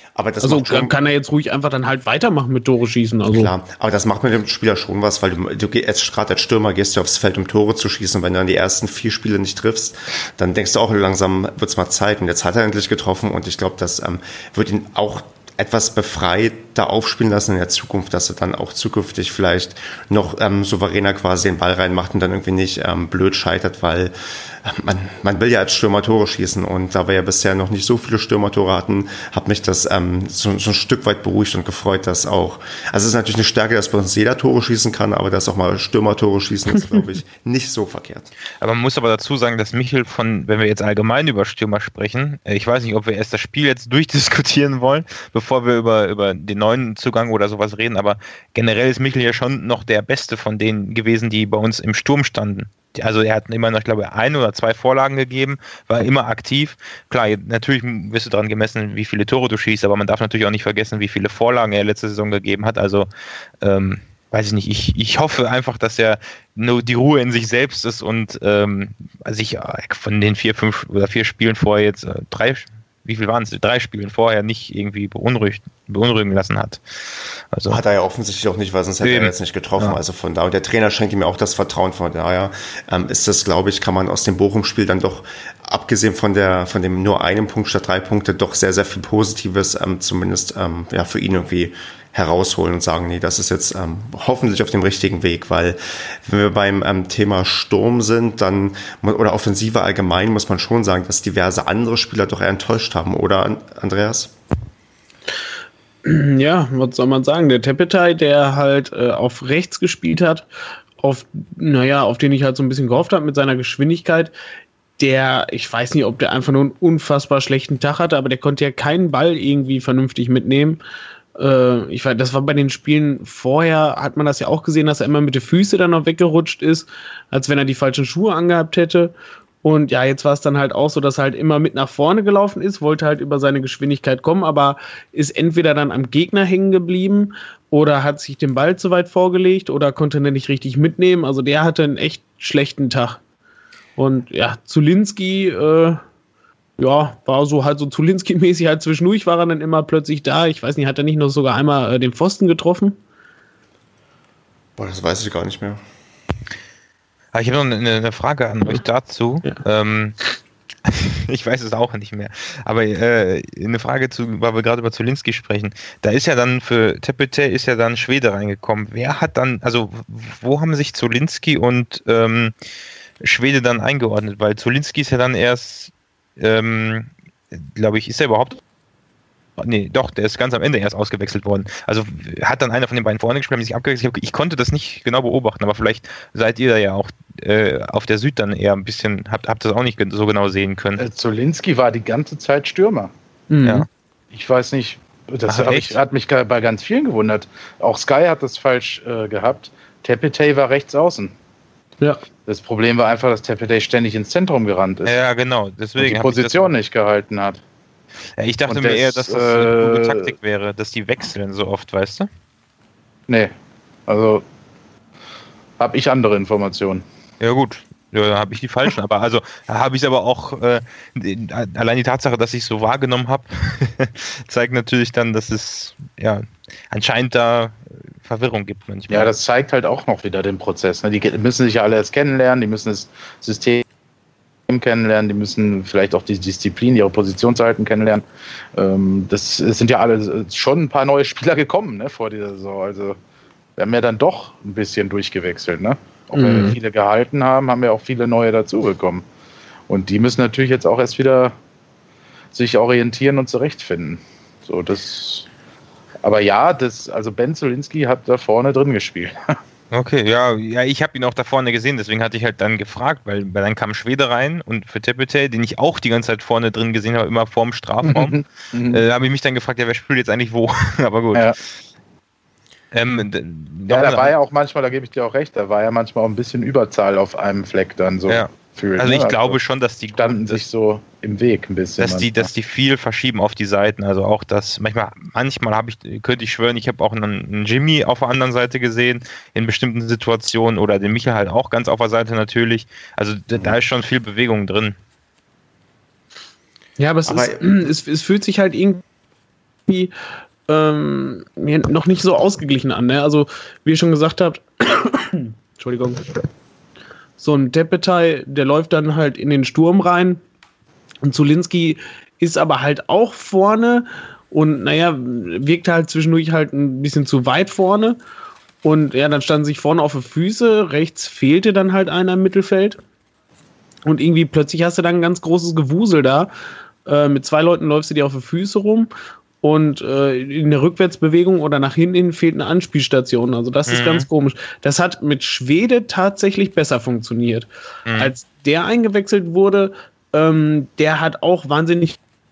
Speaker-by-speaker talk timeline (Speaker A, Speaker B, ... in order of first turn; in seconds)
Speaker A: 0.1-0.9, 3.3-38.3, 77.7-104.3, 154.8-155.8, 297.3-297.9
Speaker B: 0.4-3.5, 106.0-110.5, 111.0-114.3, 115.0-120.8, 121.4-143.2, 144.0-146.0, 146.8-153.0, 193.5-193.9, 246.3-246.8, 297.0-299.0, 299.9-300.1, 300.7-306.2, 307.4-310.4, 311.2-318.2, 318.8-323.0, 324.1-326.5, 327.1-329.1, 329.6-342.2
Speaker C: 38.6-63.1, 63.6-77.8, 79.0-80.0, 157.3-160.2, 160.8-172.5, 173.2-178.6, 179.6-191.0, 193.6-193.9, 195.5-196.0, 205.1-206.7, 208.4-212.3, 217.4-229.3, 259.9-271.6, 272.9-274.3, 278.3-280.6, 282.0-295.0, 333.9-334.3, 338.1-338.3
Speaker D: 191.0-193.1, 194.3-201.3, 202.5-205.2, 206.0-207.6, 208.7-210.3, 214.1-214.4, 215.8-217.0, 229.1-233.8, 234.7-238.2, 238.8-243.2, 243.8-249.2, 249.9-251.5, 252.5-255.5, 256.2-259.6, 268.1-269.0, 273.9-279.6, 280.2-282.5